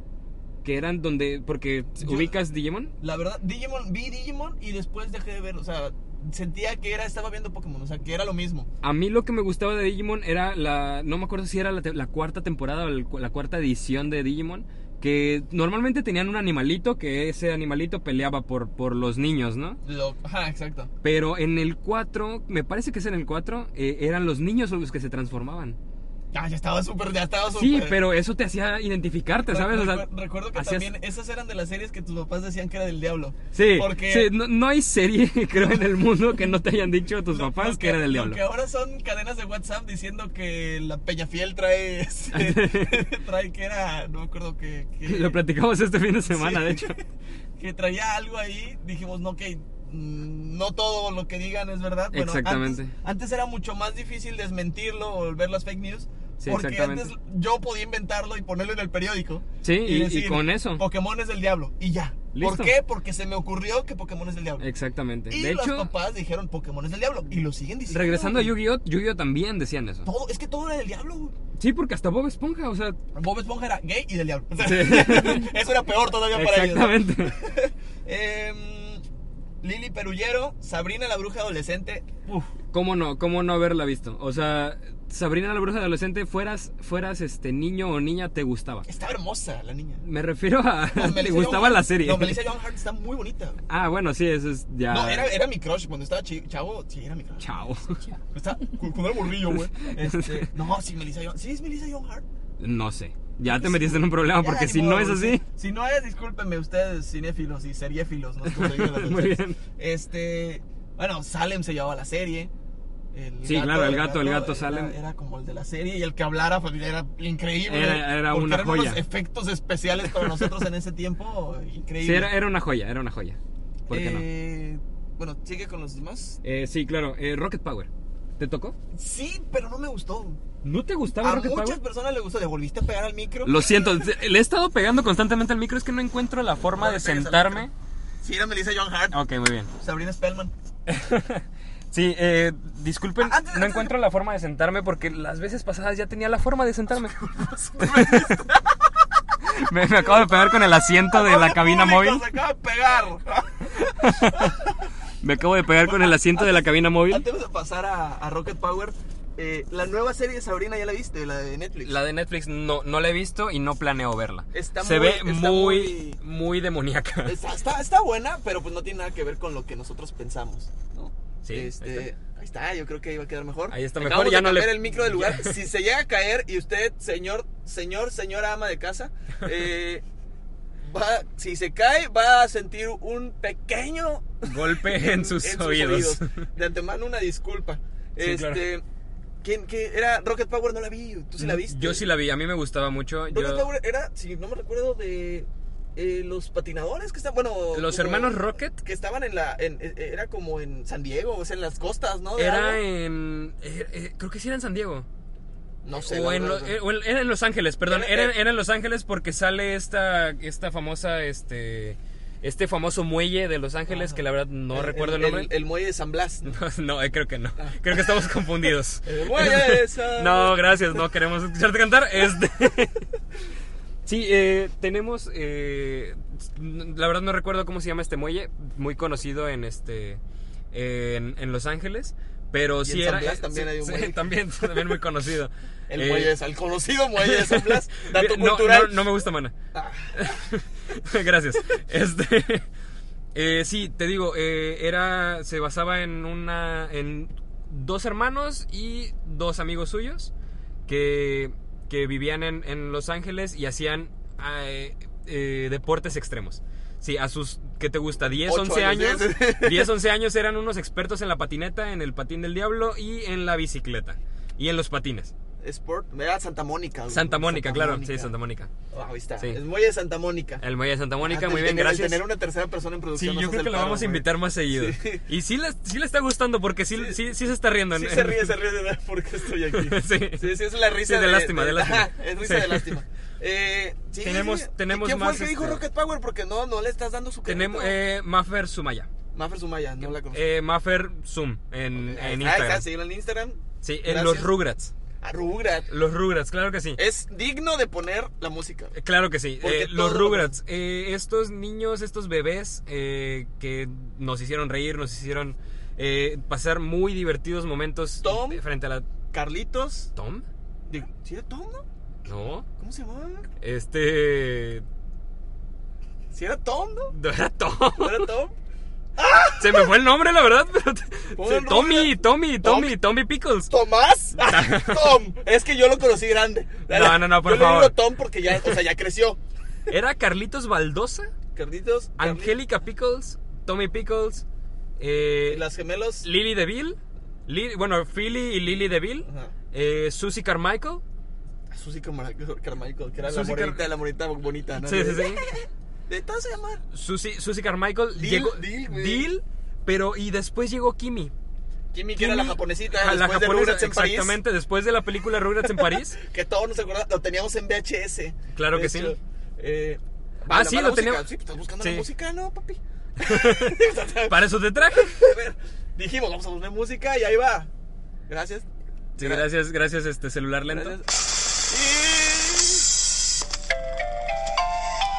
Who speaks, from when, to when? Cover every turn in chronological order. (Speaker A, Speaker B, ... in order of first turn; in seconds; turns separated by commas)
Speaker A: 0.6-2.9, Speaker B: 2.0-2.3, Speaker B: 3.0-8.7, Speaker A: 8.8-19.8, Speaker B: 19.8-20.9, Speaker A: 21.0-25.8, Speaker B: 26.3-28.0, Speaker A: 27.5-30.9, Speaker B: 29.5-34.3, Speaker A: 33.5-38.4, Speaker B: 37.3-45.4, Speaker A: 42.3-43.0, Speaker A: 45.0-47.0, Speaker B: 46.3-47.0, Speaker B: 47.6-64.6, Speaker A: 52.1-52.9, Speaker A: 56.4-57.1, Speaker A: 59.6-60.8, Speaker A: 62.3-62.7, Speaker A: 64.6-65.9, Speaker B: 65.3-68.5, Speaker A: 67.9-70.1, Speaker B: 70.0-71.3, Speaker A: 71.6-73.0, Speaker B: 73.1-79.0, Speaker A: 74.6-75.5, Speaker A: 76.3-77.4, Speaker B: 79.6-82.5, Speaker A: 82.7-88.9, Speaker B: 88.8-90.0, Speaker A: 90.0-92.4, Speaker B: 90.9-93.6, Speaker A: 93.7-95.3, Speaker B: 94.9-97.5, Speaker A: 97.4-98.0, Speaker B: 98.1-102.2, Speaker A: 99.8-100.5, Speaker A: 102.6-105.4, Speaker B: 103.4-112.5, Speaker A: 108.5-109.5, Speaker B: 113.1-122.3, Speaker A: 113.4-114.9, Speaker A: 117.7-119.0, Speaker A: 120.2-120.5, Speaker A: 122.0-123.4, Speaker A: 123.9-124.2, Speaker B: 123.9-126.4, Speaker A: 126.4-128.7, Speaker B: 128.9-130.4, Speaker A: 130.6-131.8, Speaker B: 131.2-134.1, Speaker A: 133.4-137.7, Speaker B: 136.7-137.7, Speaker B: 138.2-139.2, Speaker A: 139.1-139.7, Speaker B: 139.8-140.5, Speaker A: 140.9-148.4, Speaker B: 143.2-144.0, Speaker B: 147.4-148.9, Speaker A: 149.4-152.2, Speaker B: 150.0-150.6, Speaker B: 151.1-154.9, Speaker A: 153.8-154.6, Speaker A: 155.2-157.2, Speaker B: 155.8-162.0, Speaker A: 161.8-167.4, Speaker B: 164.5-166.2, Speaker B: 167.2-180.0, Speaker A: 171.4-172.1, Speaker A: 173.7-175.6, Speaker B: 180.8-188.8, Speaker A: 184.4-186.3, Speaker A: 188.2-188.7, Speaker B: 189.4-192.1, Speaker A: 191.4-193.7, Speaker B: 193.3-202.8, Speaker A: 197.7-198.8, Speaker A: 202.4-205.1, Speaker B: 205.8-206.8, Speaker A: 206.0-215.5, Speaker B: 207.8-208.3, Speaker B: 213.9-214.2, Speaker B: 214.7-216.5, Speaker A: 216.4-223.1, Speaker B: 217.6-218.0, Speaker B: 219.0-221.0, Speaker A: 224.1-230.2, Speaker A: 230.7-236.3, Speaker B: 232.8-235.0, Speaker B: 235.9-239.1, Speaker A: 237.2-239.5, Speaker B: 239.7-240.4, Speaker A: 240.2-242.6, Speaker A: 243.3-250.3, Speaker A: 250.9-265.3, Speaker B: 258.4-259.9, Speaker B: 265.6-268.3, Speaker A: 267.1-268.7, Speaker B: 268.9-270.6, Speaker A: 270.6-272.2, Speaker B: 271.2-275.2, Speaker A: 273.1-278.5, Speaker B: 277.9-288.0, Speaker A: 279.7-282.9, Speaker A: 284.2-285.8, Speaker A: 287.4-289.1, Speaker B: 289.3-290.4, Speaker A: 290.2-292.9, Speaker B: 291.9-294.5, Speaker A: 293.8-294.9, Speaker B: 295.2-295.9, Speaker A: 295.9-297.0, Speaker B: 296.9-298.9, Speaker A: 298.9-309.1, Speaker B: 299.6-300.5, Speaker B: 308.2-308.6, Speaker B: 309.3-310.1, Speaker A: 310.1-310.4, Speaker B: 310.9-311.8, Speaker A: 312.2-312.6, Speaker B: 312.8-313.5, Speaker A: 313.6-314.8, Speaker B: 316.3-317.1, Speaker A: 317.1-318.3, Speaker B: 318.0-318.5, Speaker B: 319.2-319.9, Speaker A: 319.6-323.7, Speaker B: 321.3-322.9, Speaker B: 323.7-329.4, Speaker A: 324.4-325.2, Speaker A: 326.9-328.0, Speaker A: 329.9-331.3, Speaker B: 331.5-332.6, Speaker A: 332.2-334.4, Speaker A: 335.0-335.6, Speaker B: 335.5-336.3, Speaker A: 336.2-341.0, Speaker B: 339.2-339.5, Speaker B: 341.7-346.8, Speaker A: 343.2-343.9, Speaker A: 344.8-345.5, Speaker A: 346.9-351.3, Speaker B: 348.1-349.3, Speaker B: 351.9-354.4, Speaker A: 352.2-356.2, Speaker B: 355.7-367.7, Speaker A: 358.5-359.1, Speaker A: 360.5-361.2, Speaker A: 361.8-362.1, Speaker A: 363.2-365.2, Speaker B: 368.3-368.6, Speaker A: 369.2-371.0, Speaker B: 369.2-369.4, Speaker B: 370.7-371.1, Speaker B: 371.6-372.9